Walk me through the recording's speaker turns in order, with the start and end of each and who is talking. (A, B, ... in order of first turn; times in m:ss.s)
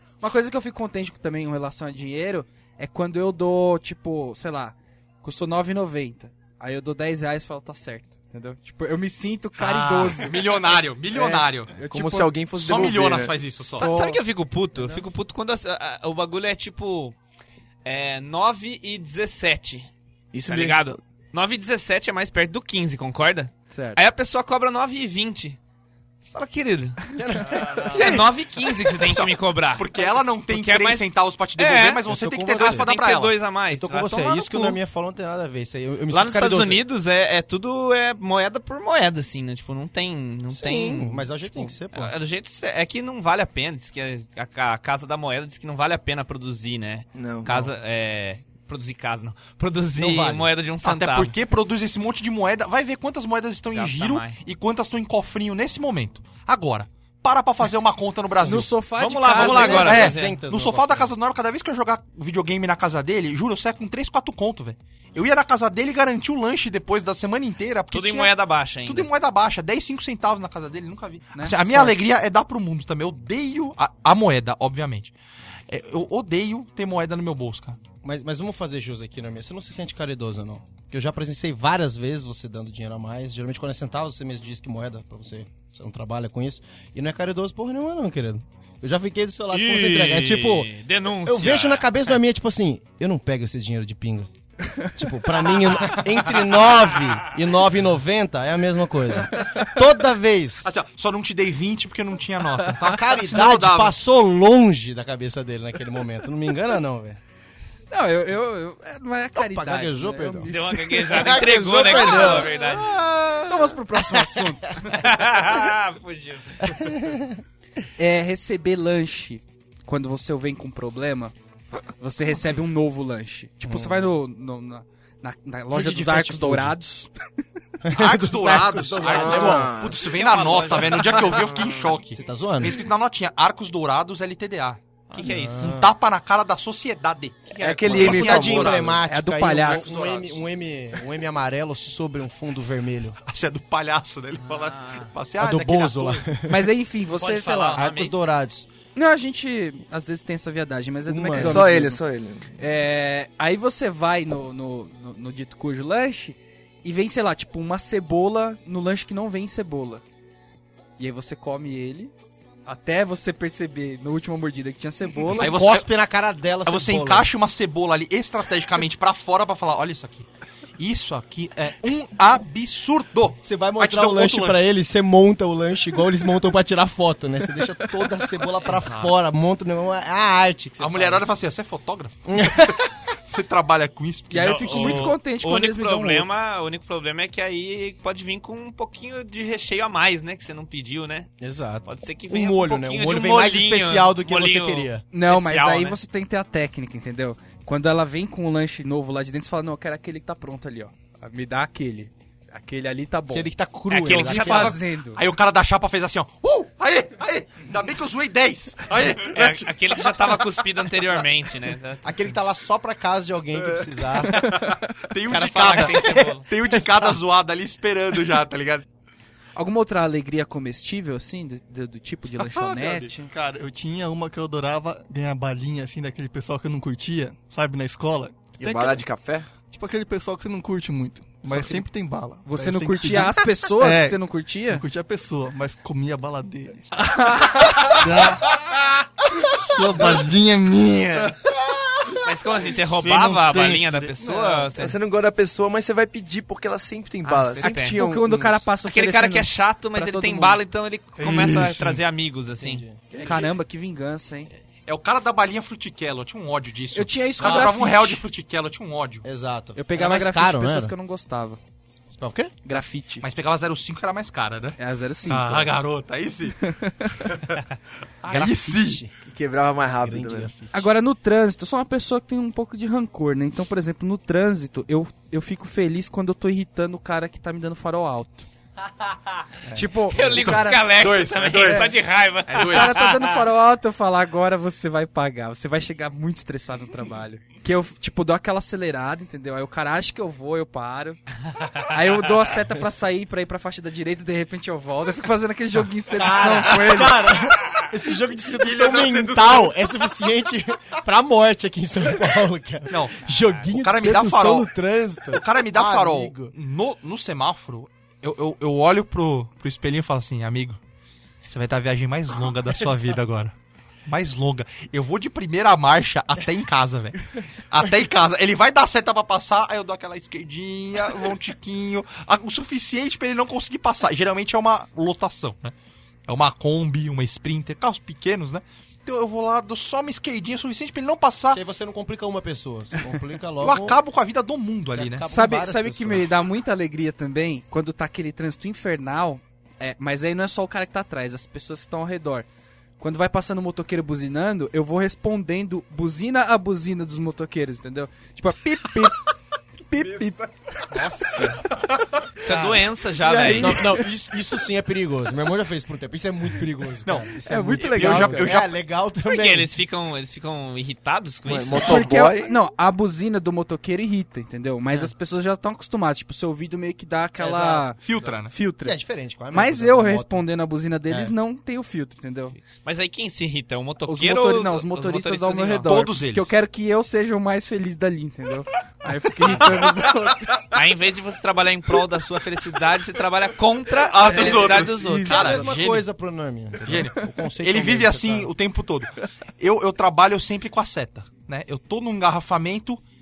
0:00.2-0:10.4 A
0:09.6-0:11.8 B
0:11.1-0:12.3 A
0:11.8-0:13.3 C
0:12.5-0:13.9 B
0:13.8-0:17.2 D
0:13.8-0:14.2 A
0:17.8-0:19.9 D
0:20.3-0:21.0 C
0:20.4-0:25.6 D
0:23.7-0:24.0 A
0:26.2-0:27.0 D
0:27.2-0:28.3 E
0:27.6-0:34.8 D
0:28.0-0:28.2 B
0:29.0-0:33.3 B
0:32.0-0:32.9 E
0:33.7-0:36.8 E
0:36.1-0:51.3 D
0:40.5-0:42.1 E
0:47.1-0:47.7 C
0:50.0-0:50.5 E
0:50.8-0:58.7 B
0:53.7-0:54.4 D
0:58.4-1:00.1 A
0:59.0-1:00.3 D
0:59.3-1:01.1 E
0:59.4-1:08.3 B
1:07.9-1:09.1 D
1:08.8-1:15.1 B
1:11.3-1:12.0 A
1:15.7-1:17.8 B
1:18.0-1:30.7 E
1:29.5-1:32.1 D
1:31.2-1:34.3 E
1:34.9-1:40.7 E
1:40.6-1:44.0 B
1:42.8-1:47.2 E
1:47.9-1:52.5 A
1:49.3-1:50.5 E
1:50.5-1:52.9 D
1:51.1-1:54.4 E
1:53.5-1:54.7 A
1:54.8-1:57.0 D
1:56.7-1:57.3 E
1:58.0-2:01.3 A
2:02.0-2:07.1 A
2:03.6-2:04.1 E
2:05.7-2:06.8 E
2:07.8-2:10.0 E
2:07.9-2:14.8 B
2:09.0-2:10.0 C
2:10.0-2:11.8 D
2:12.1-2:12.8 E
2:15.1-2:15.8 D
2:15.1-2:15.9 E
2:15.6-2:19.0 B
2:17.5-2:18.0 D
2:17.6-2:18.8 C
2:17.8-2:23.2 E
2:19.0-2:20.0 A
2:19.7-2:20.3 B
2:23.2-2:26.3 B
2:24.4-2:25.1 D
2:25.4-2:26.7 E
2:26.5-2:27.8 A
2:27.2-2:28.2 D
2:27.8-2:28.7 E
2:29.0-2:32.0 A
2:31.0-2:32.0 E
2:31.4-2:32.5 C
2:32.6-2:40.0 A
2:41.0-2:42.1 A
2:42.6-2:45.6 A
2:45.2-2:47.3 E
2:45.3-2:45.9 B
2:46.6-2:50.3 B
2:50.8-2:54.6 B
2:53.4-3:01.3 E
2:58.7-2:59.1 B
3:00.8-3:05.1 B
3:02.3-3:02.8 E
3:04.3-3:06.3 A
3:04.4-3:11.3 D
3:11.4-3:15.0 E
3:11.8-3:16.0 D
3:15.1-3:23.5 A
3:23.3-3:24.7 E
3:23.9-3:24.8 D
3:24.0-3:30.4 B
3:24.1-3:25.2 A
3:29.3-3:32.1 D
3:32.0-3:34.6 E
3:33.7-3:38.8 B
3:34.5-3:34.8 A
3:35.3-3:36.5 D
3:39.6-3:43.3 A
3:42.6-3:49.0 F
3:42.8-3:43.0 B
3:48.6-3:49.5 C
3:49.6-3:56.8 F
3:51.5-3:51.8 A
3:52.4-3:54.8 A
3:57.0-3:58.1 A
3:57.8-4:02.2 F
4:02.2-4:05.0 D
4:02.8-4:04.7 F
4:04.7-4:08.6 C
4:07.3-4:08.0 D
4:07.6-4:10.6 A
4:08.8-4:12.8 D
4:11.2-4:12.0 F
4:12.6-4:13.4 E
4:13.2-4:14.5 A
4:14.8-4:19.2 B
4:16.9-4:18.2 A
4:17.4-4:17.7 E
4:19.2-4:20.9 E
4:19.8-4:21.6 A
4:22.1-4:22.5 E
4:22.6-4:23.2 A
4:23.2-4:26.6 B
4:24.8-4:25.8 A
4:26.6-4:27.2 A
4:27.2-4:27.6 B
4:28.2-4:29.0 B
4:28.2-4:29.1 E
4:29.2-4:30.5 C
4:30.0-4:30.8 E
4:30.7-4:38.5 A
4:39.7-4:41.0 A
4:40.1-4:43.4 D
4:40.2-4:43.0 B
4:41.6-4:41.9 A
4:42.6-4:51.2 A
4:51.8-4:57.3 A
4:56.1-5:06.5 E
4:58.5-4:59.9 B
5:02.9-5:04.7 B
5:05.3-5:10.8 B
5:11.4-5:13.5 B
5:14.0-5:25.7 B
5:26.3-5:31.6 B
5:31.5-5:34.0 E
5:33.6-5:35.3 B
5:34.9-5:36.3 E
5:35.3-5:42.5 A
5:43.0-5:49.2 A
5:49.8-5:51.6 A
5:51.8-5:52.8 B
5:52.4-5:54.0 D
5:53.2-5:59.7 E
5:57.0-5:58.7 B
5:57.4-5:58.6 A
5:59.2-6:02.0 D
6:01.4-6:02.6 C
6:01.8-6:09.0 A
6:07.4-6:07.9 E
6:08.0-6:08.5 B
6:08.8-6:10.5 E
6:09.5-6:12.6 A
6:11.1-6:11.3 E
6:12.7-6:15.9 D
6:14.0-6:20.8 A
6:15.8-6:16.5 B
6:19.5-6:20.0 B
6:20.7-6:25.6 D
6:24.0-6:26.0 B
6:24.3-6:28.5 E
6:24.4-6:25.5 A
6:26.8-6:33.0 B